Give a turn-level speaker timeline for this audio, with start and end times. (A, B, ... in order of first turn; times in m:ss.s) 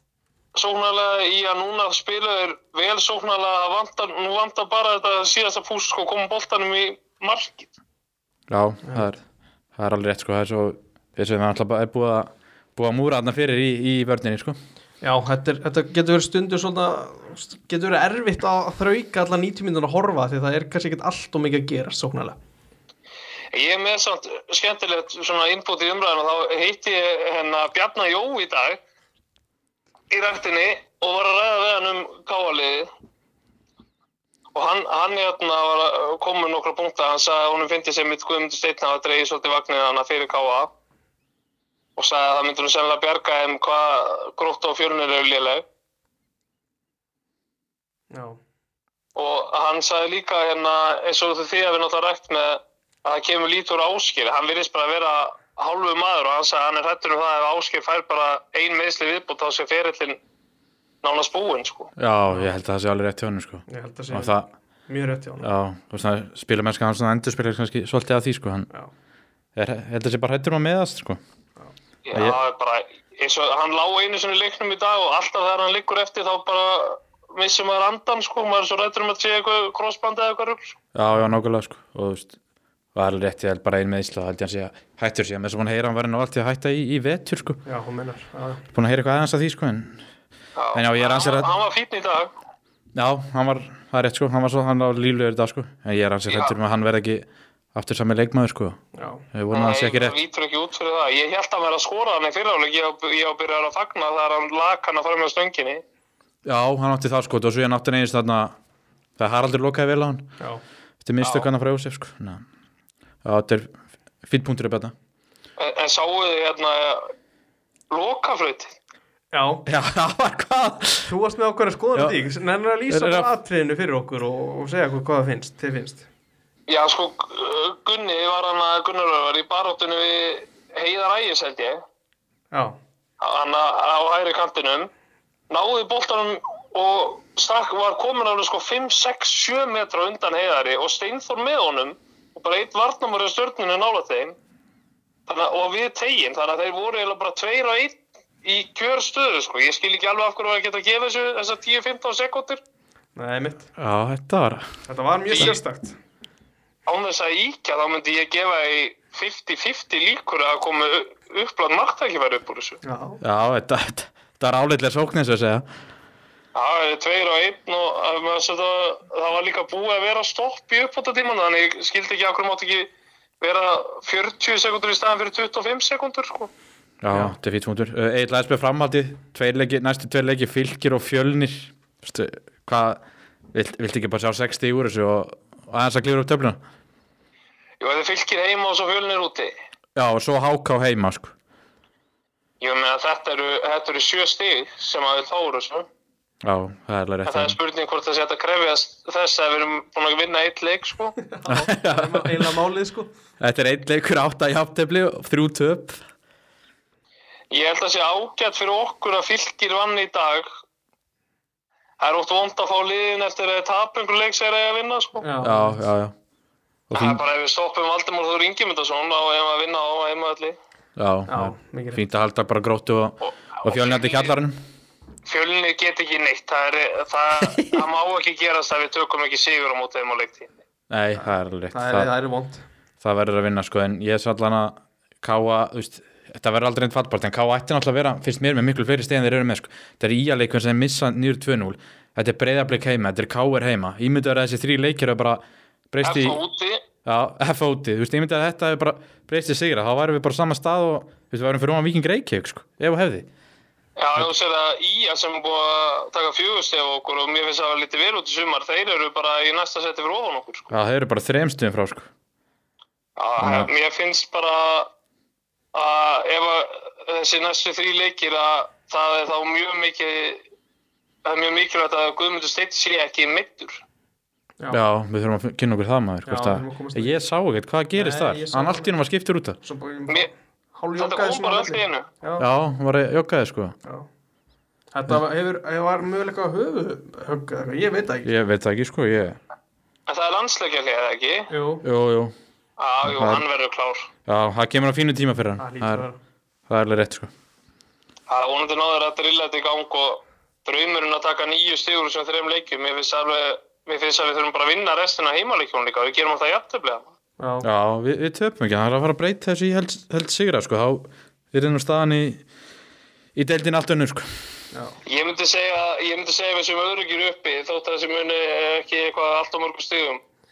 0:00.6-0:07.7 A
0:08.5-0:09.2 B
0:09.8-0:14.6 B
0:15.0-0:22.4 C
0:23.5-0:28.8 A
0:30.1-0:32.9 A
0:34.6-0:40.7 A
0:42.0-0:45.6 A
0:48.1-0:48.4 C
0:49.2-1:00.2 A
1:01.0-1:01.9 A
1:02.0-1:04.5 B
1:03.7-1:05.5 C
1:05.4-1:08.7 B
1:09.6-1:11.2 B
1:12.1-1:20.8 A
1:12.1-1:12.4 B
1:20.9-1:22.4 B
1:22.9-1:27.6 B
1:27.6-1:28.6 C
1:28.7-1:30.0 B
1:30.6-1:32.3 A
1:30.7-1:31.5 B
1:33.0-1:38.8 B
1:36.3-1:36.5 A
1:38.9-1:39.2 C
1:39.3-1:40.2 B
1:39.5-1:45.8 A
1:46.4-1:48.6 B
1:49.2-1:50.3 B
1:51.0-1:52.4 B
1:51.2-1:51.5 A
1:53.2-1:53.7 B
1:54.3-1:54.9 B
1:55.6-1:57.1 A
1:57.9-1:58.8 A
1:59.3-1:59.6 C
1:59.7-2:01.1 B
2:01.1-2:06.1 C
2:02.0-2:02.2 B
2:02.9-2:03.3 B
2:06.7-2:11.8 A
2:12.5-2:12.8 C
2:13.2-2:14.9 A
2:15.5-2:24.4 A
2:25.3-2:32.6 A
2:33.2-2:33.7 C
2:33.8-2:34.7 B
2:34.9-2:36.0 C
2:35.3-2:35.6 A
2:36.9-2:42.8 A
2:42.8-2:43.2 C
2:43.2-2:45.7 B
2:46.6-2:56.5 A
2:57.0-3:03.0 B
3:03.5-3:06.6 B
3:07.8-3:09.5 A
3:10.0-3:11.3 B
3:12.6-3:15.9 A
3:16.4-3:17.6 B
3:17.3-3:21.2 A
3:21.3-3:23.1 C
3:21.5-3:22.4 B
3:23.4-3:26.0 B
3:27.5-3:30.5 A
3:32.0-3:35.3 A
3:35.2-3:35.8 C
3:35.4-3:36.1 B
3:36.9-3:37.2 B
3:37.0-3:40.6 A
3:41.0-3:44.6 B
3:41.3-3:42.0 C
3:43.2-3:44.4 A
3:45.2-3:50.5 A
3:50.9-3:52.1 B
3:51.7-3:52.6 C
3:53.0-4:06.4 B
4:06.0-4:06.8 A
4:07.0-4:13.3 B
4:14.0-4:20.7 A
4:20.7-4:22.1 B
4:23.2-4:24.9 A
4:23.4-4:23.7 B
4:25.7-4:30.4 A
4:31.2-4:33.8 A
4:34.7-4:39.6 B
4:36.3-4:37.2 C
4:38.0-4:38.9 C
4:39.6-4:42.5 C
4:41.0-4:42.0 A
4:42.4-4:43.8 B
4:44.9-4:48.3 C
4:48.2-4:49.4 B
4:50.1-4:51.5 A
4:51.5-4:51.8 C
4:51.8-4:52.3 B
4:52.8-4:54.1 A
4:53.1-4:53.4 B
4:54.3-4:56.0 B
4:55.6-4:56.2 C
4:56.7-4:57.3 B
4:58.3-5:07.1 A
5:07.4-5:07.7 C
5:07.6-5:12.4 B
5:13.4-5:14.3 B
5:14.7-5:15.0 C
5:15.1-5:20.2 A